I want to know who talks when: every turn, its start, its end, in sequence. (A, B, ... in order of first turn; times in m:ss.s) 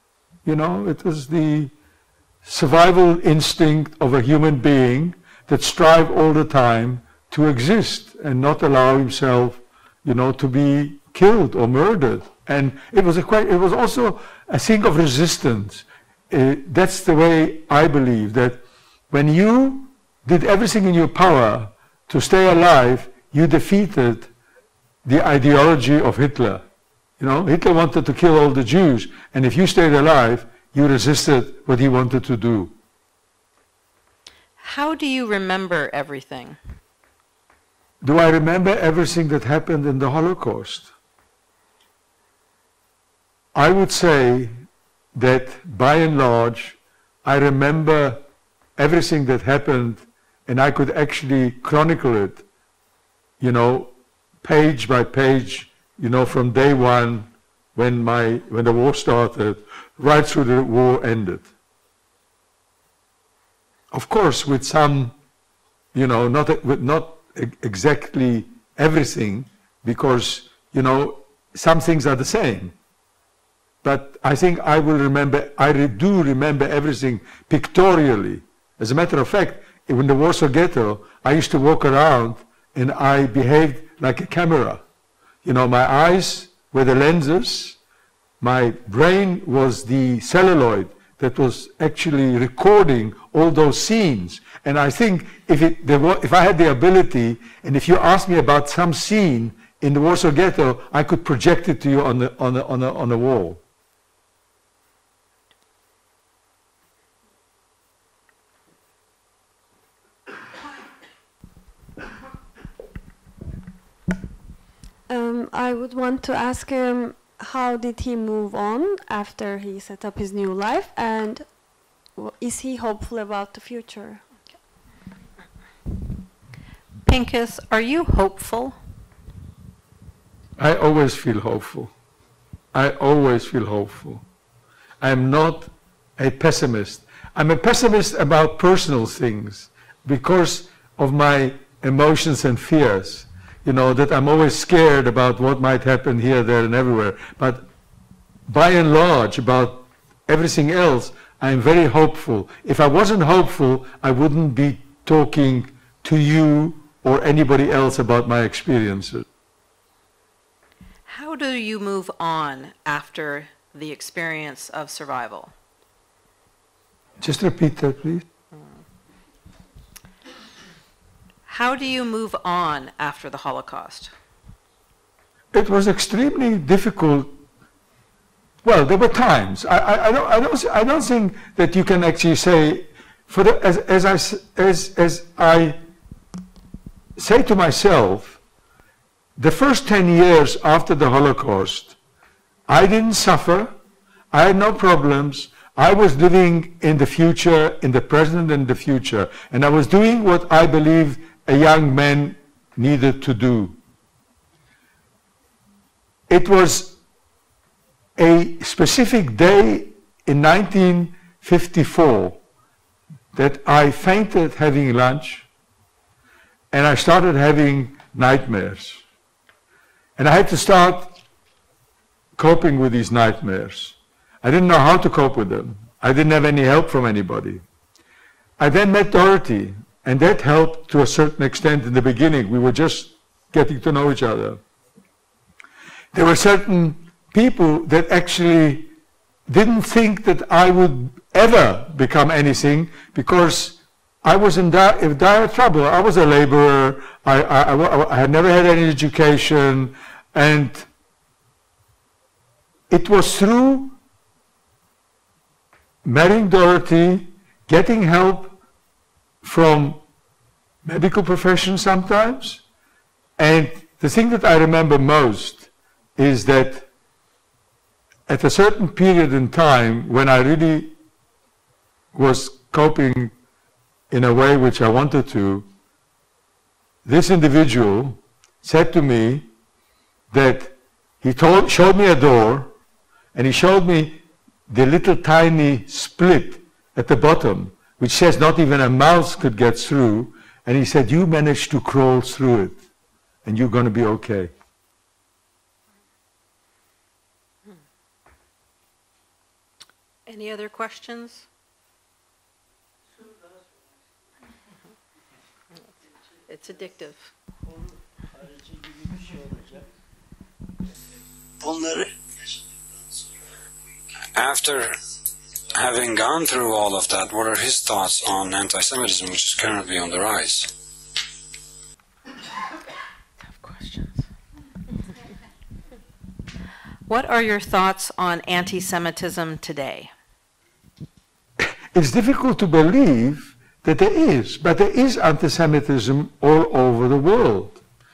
0:00.4-0:01.7 A
0:02.4-0:24.3 A
0:25.0-0:26.6 A
0:27.2-0:32.7 A
0:34.6-0:36.6 B
0:38.0-0:40.9 A
0:43.5-0:44.5 A
0:45.1-0:48.2 A
0:48.8-0:52.4 A
0:53.4-0:53.9 A
0:54.4-1:01.5 A
1:03.9-1:05.1 A
1:05.9-1:12.7 A
1:13.8-1:24.8 A
1:25.4-1:27.8 A
1:28.4-1:43.6 A
1:55.1-2:01.5 C
2:02.2-2:04.2 C
2:07.0-2:08.8 B
2:10.6-2:11.9 A
2:12.7-2:14.2 A
2:15.0-2:27.7 A
2:28.5-2:39.2 A
2:41.1-2:45.5 B
2:47.2-2:48.2 A
2:51.5-2:54.1 B
2:55.5-2:57.3 A
2:58.6-3:05.8 A
3:07.2-3:08.4 A
3:09.4-3:12.0 A
3:12.7-3:13.8 A
3:14.3-3:23.8 A
3:26.3-3:27.0 A
3:28.2-3:32.4 A
3:33.3-3:35.5 A
3:36.7-3:39.0 A
3:40.2-3:41.2 A
3:42.4-3:47.6 A
3:48.6-3:54.6 A
3:56.1-3:58.9 A
3:59.5-4:10.9 A
4:12.9-4:14.0 A
4:16.0-4:18.6 A
4:19.4-4:20.0 A
4:20.8-4:22.6 A
4:23.4-4:26.9 A
4:28.3-4:30.9 A
4:32.1-4:33.3 A
4:34.1-4:35.7 A
4:37.0-4:39.5 A
4:40.3-4:42.7 A
4:43.3-4:52.8 A
4:53.4-4:54.5 A
5:00.3-5:01.4 B
5:06.4-5:07.3 B
5:11.6-5:12.1 D
5:14.3-5:15.0 D
5:15.7-5:20.7 D
5:23.4-5:24.2 B
5:27.1-5:30.1 B
5:31.9-5:37.8 A